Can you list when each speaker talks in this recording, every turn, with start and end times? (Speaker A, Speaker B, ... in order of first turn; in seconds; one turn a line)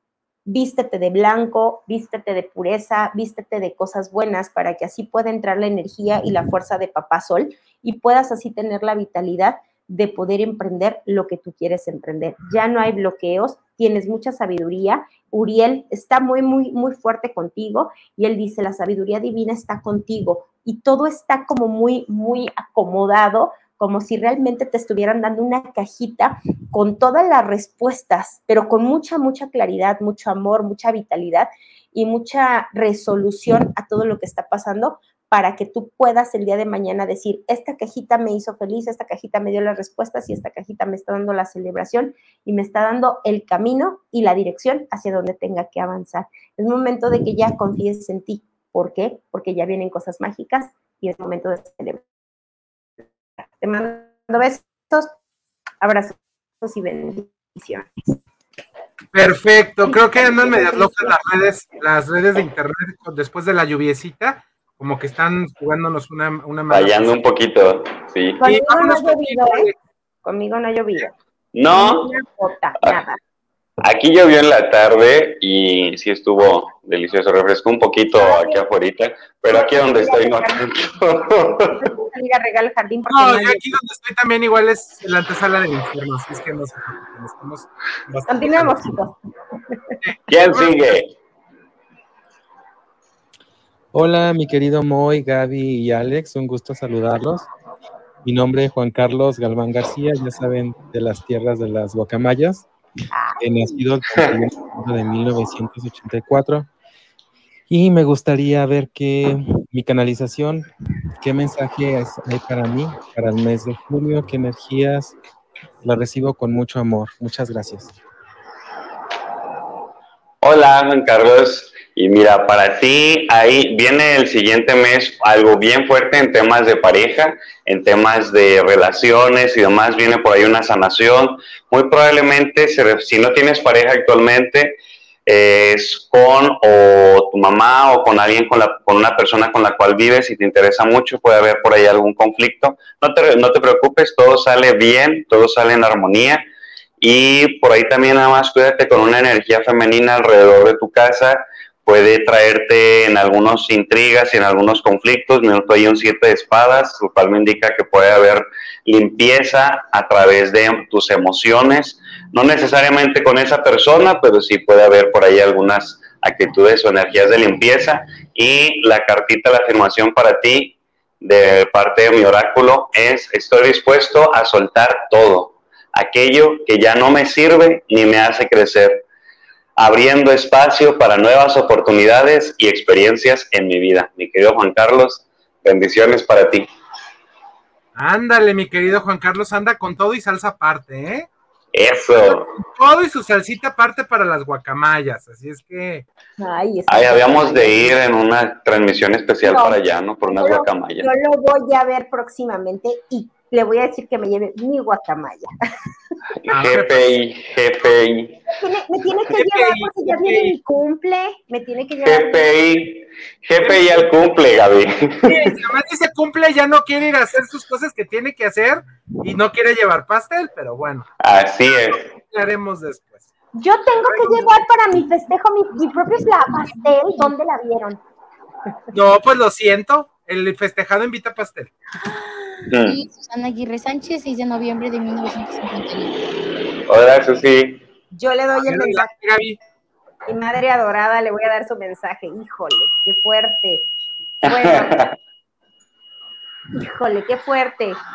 Speaker A: 0.5-52.0
Speaker A: 53.6-55.1
Speaker A: 55.8-57.9
Speaker B: 59.1-67.2
Speaker A: 59.9-61.1
Speaker C: 66.7-68.4
Speaker A: 68.4-69.7
Speaker B: 68.4-69.8
Speaker A: 70.2-71.1
Speaker C: 71.5-72.1
Speaker A: 71.7-73.2
Speaker C: 73.8-81.8
Speaker A: 78.2-78.6
Speaker A: 79.5-80.9
Speaker A: 81.7-83.6
Speaker B: 83.1-89.0
Speaker A: 88.3-89.2
Speaker B: 90.0-91.0
Speaker C: 90.3-91.1
Speaker D: 93.9-97.5
Speaker D: 98.2-102.7
Speaker A: 103.1-103.4
Speaker D: 103.4-106.7
Speaker D: 107.7-110.7
Speaker D: 111.2-115.1
Speaker D: 115.8-117.9
Speaker C: 120.4-146.4
Speaker C: 147.0-179.0
Speaker C: 179.8-186.7
Speaker B: 187.9-191.3
Speaker C: 191.7-192.5
Speaker B: 192.1-196.1
Speaker A: 196.4-197.9
Speaker C: 196.9-201.1
Speaker A: 199.4-205.5
Speaker B: 206.5-207.2
Speaker C: 206.5-208.4
Speaker A: 208.5-212.5
Speaker B: 209.3-210.6
Speaker C: 212.0-215.5
Speaker B: 213.6-214.0
Speaker B: 215.2-221.1
Speaker C: 221.2-222.0
Speaker B: 221.7-223.3
Speaker A: 223.5-228.0
Speaker B: 224.1-224.6
Speaker B: 228.9-231.7
Speaker E: 232.0-236.1
Speaker C: 232.7-233.0
Speaker C: 236.9-237.8
Speaker A: 238.1-239.1
Speaker B: 238.6-239.6
Speaker A: 240.3-243.9
Speaker A: 244.4-245.0
Speaker C: 244.4-245.1
Speaker A: 246.7-248.0